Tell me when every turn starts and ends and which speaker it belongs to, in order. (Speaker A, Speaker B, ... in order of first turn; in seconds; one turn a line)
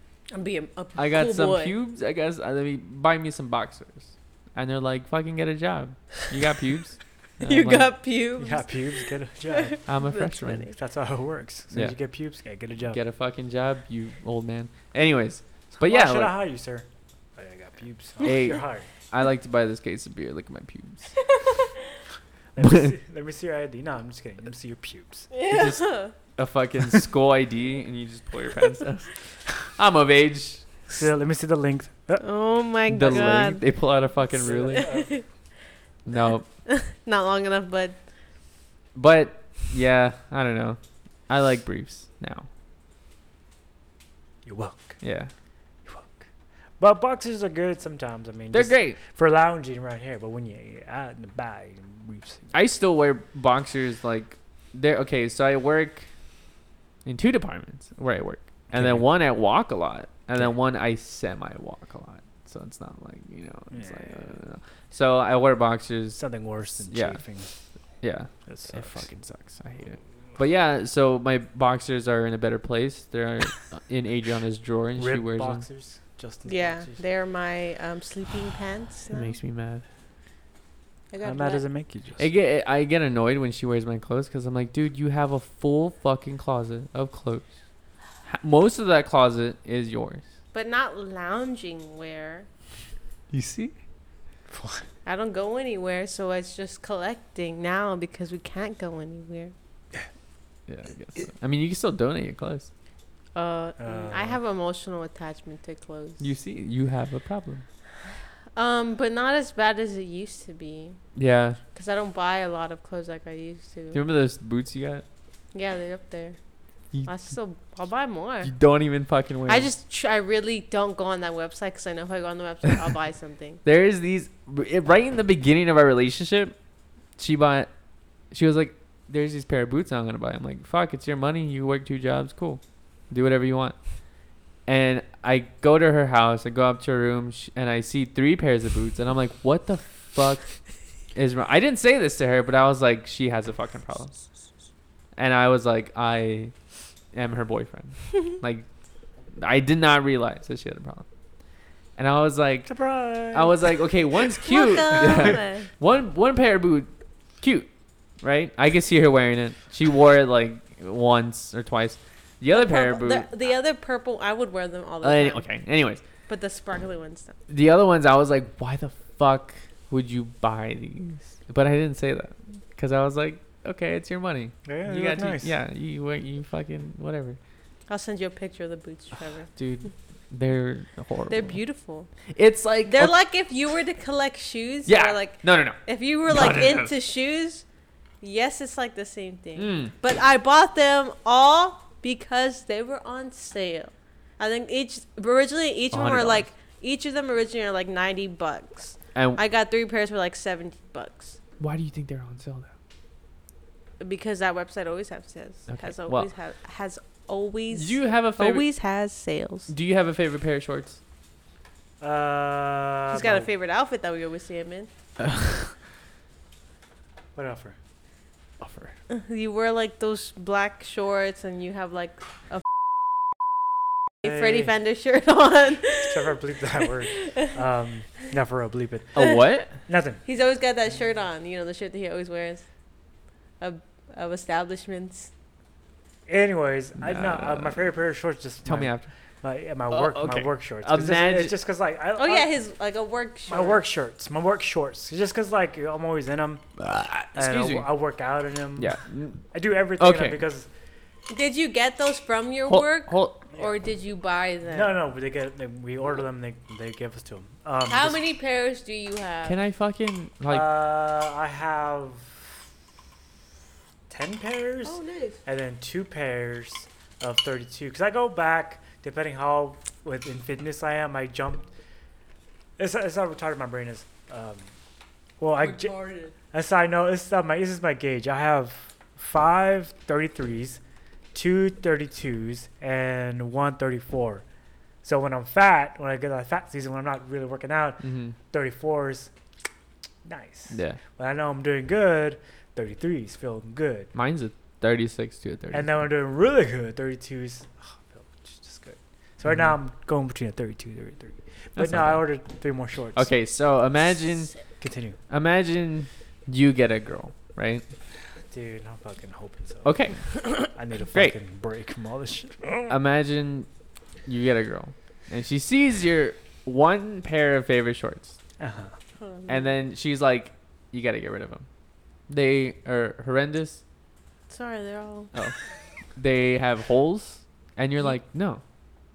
Speaker A: 0.3-1.7
Speaker B: 1.0-7.9
Speaker A: 7.4-10.7
Speaker C: 8.4-9.8
Speaker B: 9.9-10.7
Speaker C: 10.7-13.0
Speaker B: 11.7-12.0
Speaker B: 12.9-16.4
Speaker C: 15.8-18.9
Speaker B: 18.2-21.4
Speaker A: 21.2-22.0
Speaker C: 22.5-25.3
Speaker B: 22.6-22.9
Speaker A: 25.3-26.1
Speaker B: 25.4-31.0
Speaker C: 30.9-32.2
Speaker A: 32.2-33.6
Speaker B: 32.9-34.9
Speaker C: 34.4-35.1
Speaker A: 34.4-35.2
Speaker B: 36.0-36.5
Speaker A: 36.6-38.0
Speaker B: 38.9-42.5
Speaker C: 44.4-45.0
Speaker B: 45.0-45.3
Speaker C: 45.9-46.3
Speaker C: 46.8-52.5
Speaker B: 48.5-49.0
Speaker B: 52.5-56.1
Speaker B: 57.0-66.2
Speaker C: 58.7-59.0
Speaker C: 63.7-64.3
Speaker C: 66.2-67.5
Speaker B: 66.9-67.2
Speaker B: 68.0-75.6
Speaker C: 68.5-69.1
Speaker C: 75.0-77.0
Speaker A: 76.5-79.4
Speaker B: 79.1-79.8
Speaker A: 81.1-81.6
Speaker C: 81.2-82.3
Speaker B: 82.2-87.5
Speaker B: 88.2-90.2
Speaker A: 90.5-92.5
Speaker B: 93.3-93.7
Speaker C: 94.5-94.8
Speaker A: 95.0-99.5
Speaker B: 100.7-102.7
Speaker A: 103.3-106.3
Speaker C: 103.8-104.4
Speaker B: 106.2-107.6
Speaker A: 108.5-111.0
Speaker B: 111.1-111.6
Speaker A: 111.7-114.0
Speaker B: 113.9-115.0
Speaker A: 115.5-116.4
Speaker B: 116.9-117.3
Speaker A: 117.0-118.5
Speaker B: 118.4-119.7
Speaker A: 119.5-123.6
Speaker B: 123.6-126.5
Speaker B: 127.2-127.7
Speaker B: 128.3-133.8
Speaker B: 134.7-140.5
Speaker B: 141.1-144.2
Speaker B: 145.2-146.5
Speaker B: 147.1-148.7
Speaker B: 149.4-151.1
Speaker B: 152.0-152.7
Speaker C: 152.7-153.8
Speaker B: 153.3-157.7
Speaker A: 154.4-155.7
Speaker C: 155.0-155.4
Speaker B: 158.2-163.3
Speaker A: 162.5-165.5
Speaker B: 165.0-166.0
Speaker A: 166.3-167.4
Speaker B: 167.5-177.4
Speaker C: 174.7-175.5
Speaker A: 177.9-179.5
Speaker B: 179.5-181.6
Speaker A: 181.3-182.1
Speaker B: 182.3-183.1
Speaker A: 182.9-187.6
Speaker B: 184.9-186.9
Speaker A: 188.2-201.4
Speaker B: 189.6-189.9
Speaker B: 195.9-196.5
Speaker B: 199.1-199.4
Speaker B: 201.6-202.7
Speaker A: 204.0-209.7
Speaker B: 205.7-206.3
Speaker B: 207.7-208.7
Speaker B: 209.7-211.0
Speaker C: 212.0-213.5
Speaker A: 213.1-214.9
Speaker B: 215.2-215.7
Speaker C: 217.3-217.8
Speaker B: 218.6-218.9
Speaker A: 219.1-222.6
Speaker A: 224.2-226.3
Speaker C: 224.2-224.7
Speaker C: 226.0-229.3
Speaker A: 227.1-227.6
Speaker B: 229.2-229.7
Speaker C: 229.9-230.2
Speaker A: 230.2-232.6
Speaker A: 233.6-235.3
Speaker C: 236.3-242.5
Speaker B: 237.0-237.9
Speaker B: 238.6-239.1
Speaker B: 239.9-241.5
Speaker A: 242.2-243.8
Speaker C: 243.5-246.6
Speaker B: 246.8-247.9
Speaker C: 247.3-249.0
Speaker B: 248.8-250.4
Speaker C: 249.5-250.7
Speaker A: 251.3-254.9
Speaker B: 252.7-253.4
Speaker C: 254.7-258.2
Speaker A: 257.9-259.6
Speaker B: 259.4-260.7
Speaker C: 260.5-262.6
Speaker C: 264.1-271.7
Speaker A: 264.8-265.4
Speaker C: 272.8-274.7
Speaker C: 275.4-280.8
Speaker A: 275.6-276.3
Speaker C: 281.3-284.4
Speaker C: 285.0-289.3
Speaker B: 288.0-288.4
Speaker C: 290.2-294.1
Speaker B: 290.7-291.0
Speaker B: 294.1-295.9
Speaker C: 295.7-303.3
Speaker B: 299.4-299.7
Speaker B: 301.8-302.3
Speaker B: 303.1-304.6
Speaker C: 304.8-305.2
Speaker B: 305.3-307.9
Speaker C: 308.5-310.1
Speaker B: 309.9-311.4
Speaker C: 310.7-312.9
Speaker B: 312.9-313.7
Speaker B: 314.2-318.4
Speaker C: 318.6-318.9
Speaker A: 319.2-319.7
Speaker B: 319.5-321.6
Speaker B: 322.3-323.8
Speaker A: 324.5-325.3
Speaker B: 326.1-328.6